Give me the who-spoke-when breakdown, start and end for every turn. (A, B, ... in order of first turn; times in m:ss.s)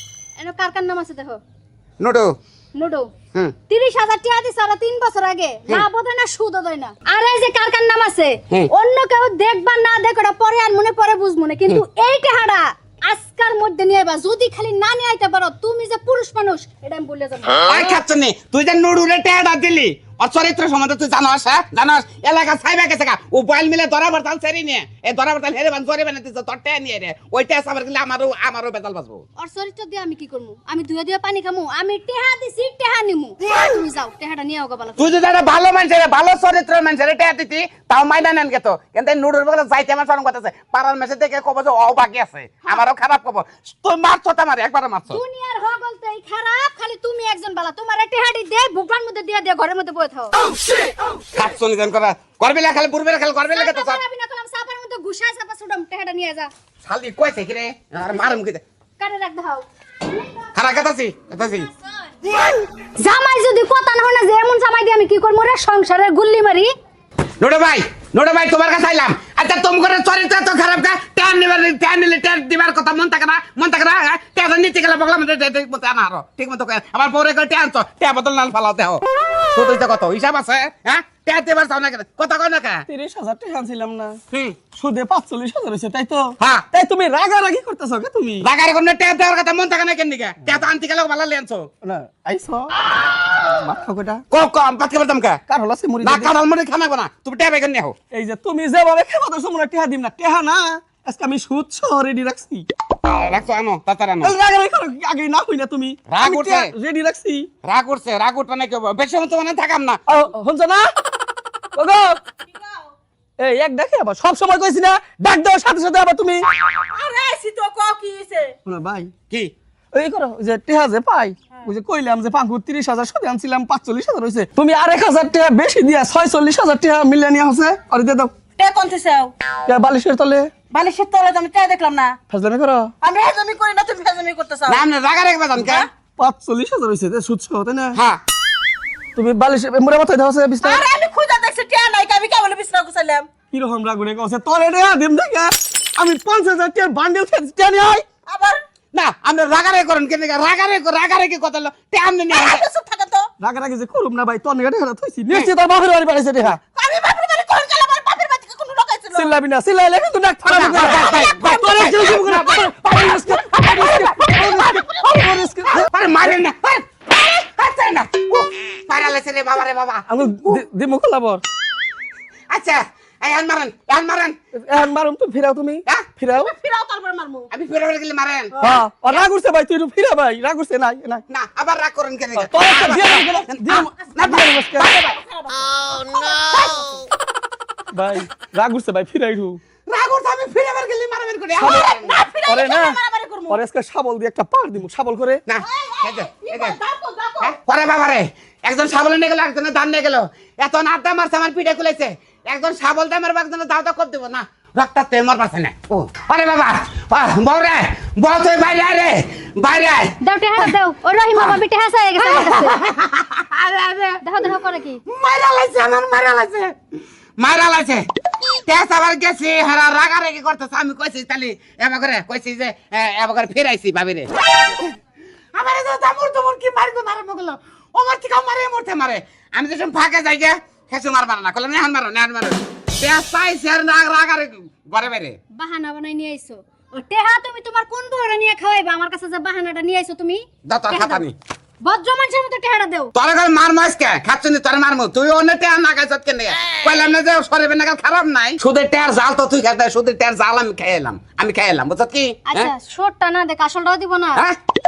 0:00.4-0:01.4 A
0:02.0-0:02.3 B
0:02.8-0:03.1 A
0:03.7-0:18.0 A
0:17.6-0:29.2 B
0:29.4-0:35.2 A
0:35.0-0:45.2 B
0:45.1-0:50.4 A
0:51.3-0:54.0 B
0:53.5-0:56.5 A
0:56.8-0:58.6 B
0:59.0-0:59.6 A
1:00.6-1:01.7 B
1:03.0-1:06.7 A
1:07.4-1:22.8 B
1:22.9-1:24.2 C
1:24.7-1:28.5 C
1:28.4-1:31.7 B
1:31.8-1:32.7 C
1:33.4-1:34.2 C
1:34.3-1:35.4 B
1:35.5-1:36.3 C
1:36.0-1:38.0 B
1:38.1-1:42.7 C
1:43.1-1:44.3 B
1:44.2-1:47.5 C
1:46.1-1:46.7 B
1:47.6-1:50.0 B
1:50.1-1:50.9 C
1:51.8-1:52.2 C
1:52.5-1:52.9 D
1:53.4-1:56.5 C
1:56.9-1:58.6 D
1:58.6-1:59.1 C
1:59.9-2:08.3 C
2:08.6-2:09.3 D
2:09.7-2:10.5 C
2:10.7-2:12.2 D
2:12.3-2:12.9 C
2:13.0-2:14.8 D
2:14.7-2:15.9 B
2:16.2-2:18.0 C
2:18.0-2:18.2 B
2:19.2-2:20.9 C
2:20.6-2:23.3 D
2:23.5-2:28.1 C
2:28.3-2:28.6 D
2:28.9-2:32.6 B
2:32.3-2:33.3 D
2:33.4-2:36.6 C
2:36.7-2:39.3 D
2:39.1-2:45.9 C
2:40.5-2:50.6 B
2:50.1-2:51.4 C
2:52.5-2:54.4 B
2:54.5-2:56.5 C
2:56.4-2:57.5 D
2:57.5-2:58.6 B
2:58.6-3:01.2 C
3:01.3-3:05.1 B
3:02.4-3:05.0 C
3:04.9-3:06.8 D
3:07.9-3:09.6 C
3:09.9-3:12.2 B
3:11.6-3:13.6 D
3:11.6-3:11.9 C
3:12.4-3:15.4 C
3:15.5-3:16.8 B
3:15.6-3:17.5 D
3:17.4-3:30.7 B
3:30.2-3:32.8 A
3:32.2-3:34.2 B
3:34.2-3:35.0 A
3:35.1-3:36.8 B
3:37.4-3:38.1 B
3:38.6-3:44.8 B
3:45.6-3:55.4 B
3:55.6-4:01.2 A
4:00.7-4:01.4 B
4:01.8-4:03.1 A
4:03.2-4:12.7 B
4:12.5-4:14.4 A